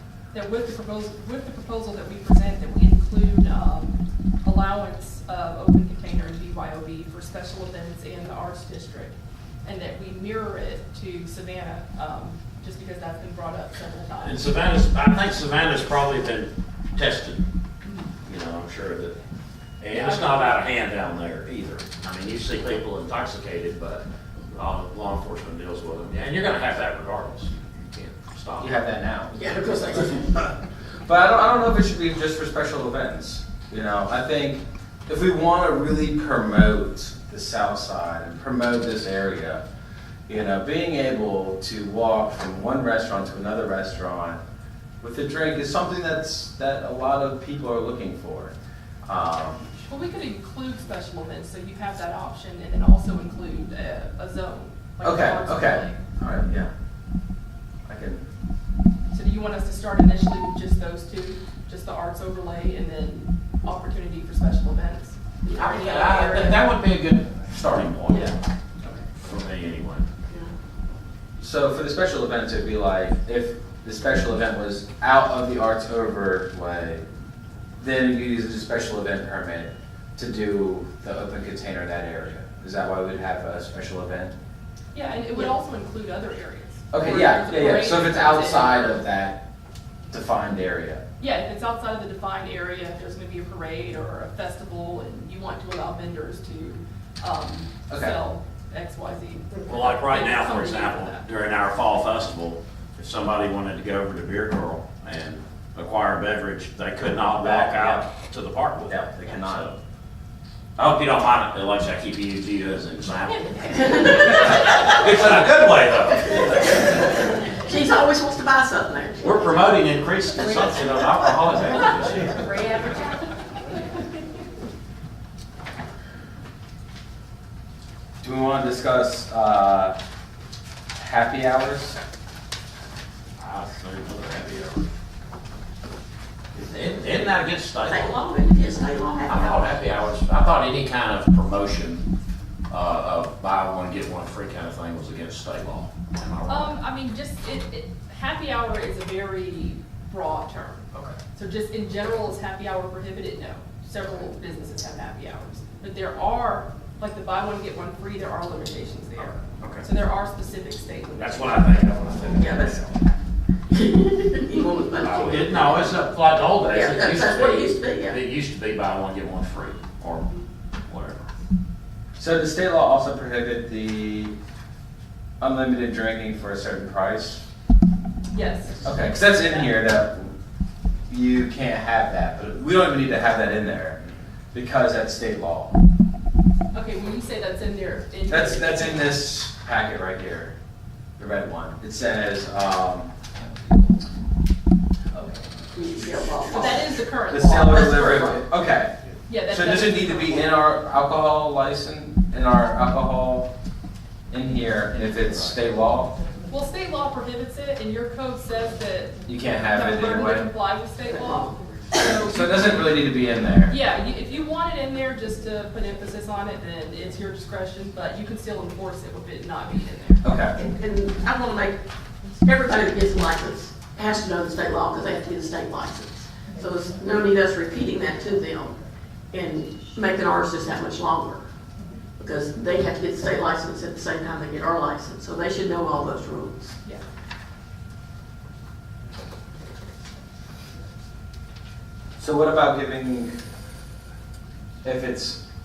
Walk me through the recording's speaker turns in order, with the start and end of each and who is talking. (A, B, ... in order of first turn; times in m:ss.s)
0:00.3-0:14.5 A
0:14.2-0:17.4 B
0:17.8-0:18.1 A
0:18.2-0:19.1 B
0:19.8-0:28.7 B
0:19.9-0:20.6 A
0:28.6-0:29.4 C
0:29.3-0:30.5 D
0:31.0-0:39.6 C
0:40.3-0:44.4 C
0:45.0-0:48.5 C
0:49.0-0:49.7 C
0:49.8-0:56.0 A
0:55.0-0:56.7 C
0:57.8-0:58.2 C
0:59.1-1:06.6 A
1:05.5-1:08.3 B
1:09.1-1:10.0 B
1:11.4-1:17.0 C
1:17.8-1:24.3 C
1:24.9-1:28.9 A
1:26.9-1:29.4 C
1:30.1-1:31.0 C
1:31.2-1:41.3 A
1:37.9-1:38.2 C
1:39.6-1:49.8 B
1:47.3-1:48.1 C
1:48.9-1:49.7 C
1:50.8-1:57.0 B
1:53.7-1:54.5 D
1:56.5-1:56.9 D
1:57.4-1:59.6 D
1:59.2-2:02.6 B
2:02.3-2:03.2 A
2:08.2-2:10.0 C
2:11.0-2:12.0 C
2:13.4-2:14.9 B
2:16.5-2:18.2 B
2:17.8-2:19.7 D
2:19.2-2:22.0 B
2:22.7-2:26.8 B
2:26.5-2:30.8 A
2:31.3-2:42.0 A
2:39.4-2:39.8 B
2:41.2-2:42.9 B
2:42.3-2:42.8 D
2:43.7-2:45.9 D
2:45.0-2:51.2 B
2:46.7-2:48.2 D
2:52.2-2:54.3 C
2:55.4-2:57.4 C
2:58.3-2:59.7 A
2:58.8-3:00.3 C
3:01.1-3:04.0 C
3:04.5-3:05.8 C
3:06.7-3:09.2 A
3:08.3-3:10.5 C
3:11.2-3:13.1 C
3:15.1-3:15.5 A
3:15.7-3:16.8 D
3:16.4-3:18.3 A
3:17.3-3:18.9 C
3:17.5-3:18.4 D
3:19.3-3:20.6 A
3:19.5-3:23.5 C
3:24.3-3:26.2 C
3:26.5-3:33.0 A
3:29.3-3:30.5 C
3:32.2-3:33.7 C
3:33.6-3:40.3 A
3:40.2-3:40.6 C
3:40.6-3:41.8 D
3:42.4-3:48.8 D
3:49.3-3:51.5 D
3:52.2-3:56.8 D
4:02.2-4:03.3 C
4:04.8-4:05.4 C